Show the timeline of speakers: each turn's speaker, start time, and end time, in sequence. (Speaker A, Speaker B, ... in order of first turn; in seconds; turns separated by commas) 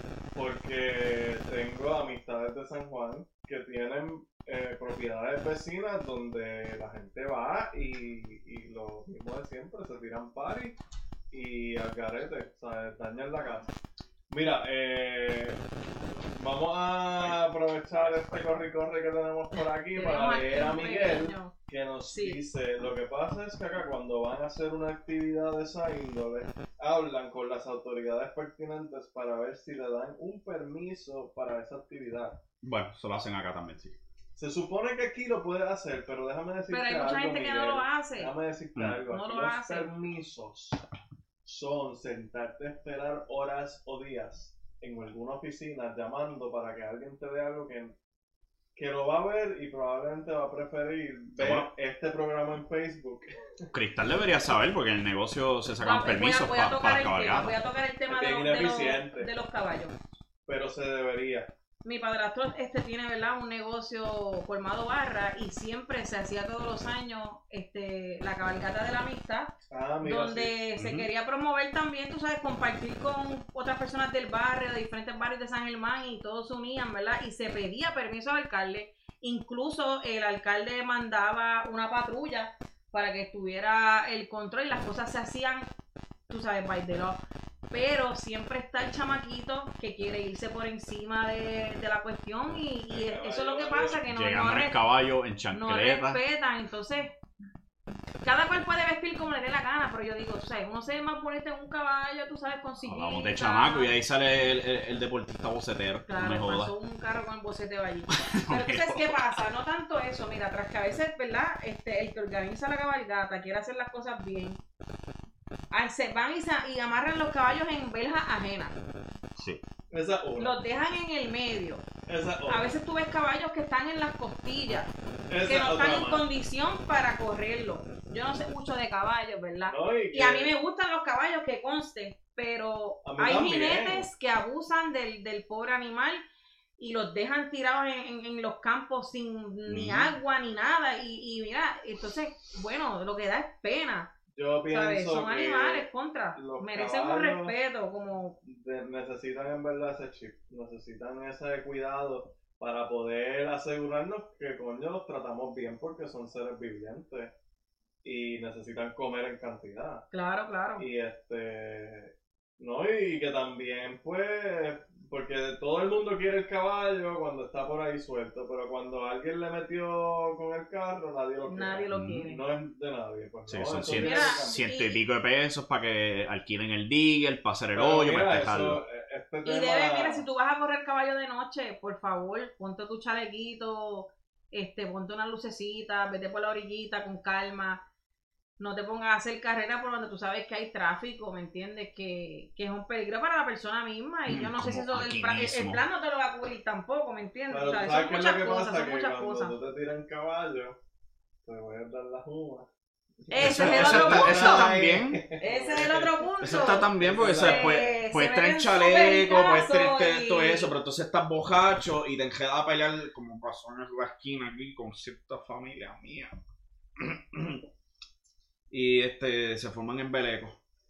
Speaker A: 0.3-10.8, Speaker A: 11.3-13.7, Speaker A: 14.3-15.6, Speaker A: 16.3-32.4, Speaker B: 17.2-18.7, Speaker C: 19.9-21.5, Speaker C: 22.1-22.4, Speaker B: 32.6-34.0, Speaker A: 34.4-40.8, Speaker C: 36.7-38.3, Speaker C: 39.1-39.9, Speaker A: 41.4-47.9, Speaker A: 48.8-53.6, Speaker B: 51.4-51.7, Speaker B: 53.7-57.5, Speaker C: 55.8-60.0, Speaker A: 58.1-59.3, Speaker A: 60.5-61.5, Speaker C: 61.8-85.7, Speaker A: 69.7-70.5, Speaker B: 70.8-71.1, Speaker C: 86.3-94.8, Speaker A: 92.9-94.0, Speaker B: 94.0-96.2, Speaker C: 95.5-97.2, Speaker C: 98.2-103.9, Speaker B: 102.8-106.7, Speaker C: 106.1-114.6, Speaker B: 108.1-109.3, Speaker C: 115.7-118.8, Speaker A: 119.9-120.6, Speaker C: 120.4-121.8, Speaker A: 122.0-122.7, Speaker C: 122.5-124.9, Speaker A: 125.3-126.2, Speaker C: 125.4-136.2, Speaker A: 129.7-130.5, Speaker A: 133.0-134.1, Speaker C: 136.8-144.1, Speaker B: 139.7-140.1, Speaker A: 144.3-147.5, Speaker C: 144.7-148.4, Speaker A: 148.4-157.3, Speaker A: 158.0-160.1, Speaker C: 160.1-160.8, Speaker A: 160.8-174.7, Speaker C: 171.4-172.4, Speaker B: 171.9-172.3, Speaker B: 173.5-178.8, Speaker C: 173.9-175.0, Speaker A: 177.7-180.2, Speaker C: 179.4-187.8, Speaker C: 188.6-199.5, Speaker B: 194.3-195.8, Speaker A: 197.5-200.8, Speaker A: 201.4-202.7, Speaker A: 203.2-207.9, Speaker C: 203.3-204.7, Speaker B: 203.4-205.2, Speaker C: 205.4-210.7, Speaker B: 206.4-216.3, Speaker B: 217.0-217.6, Speaker B: 218.7-220.6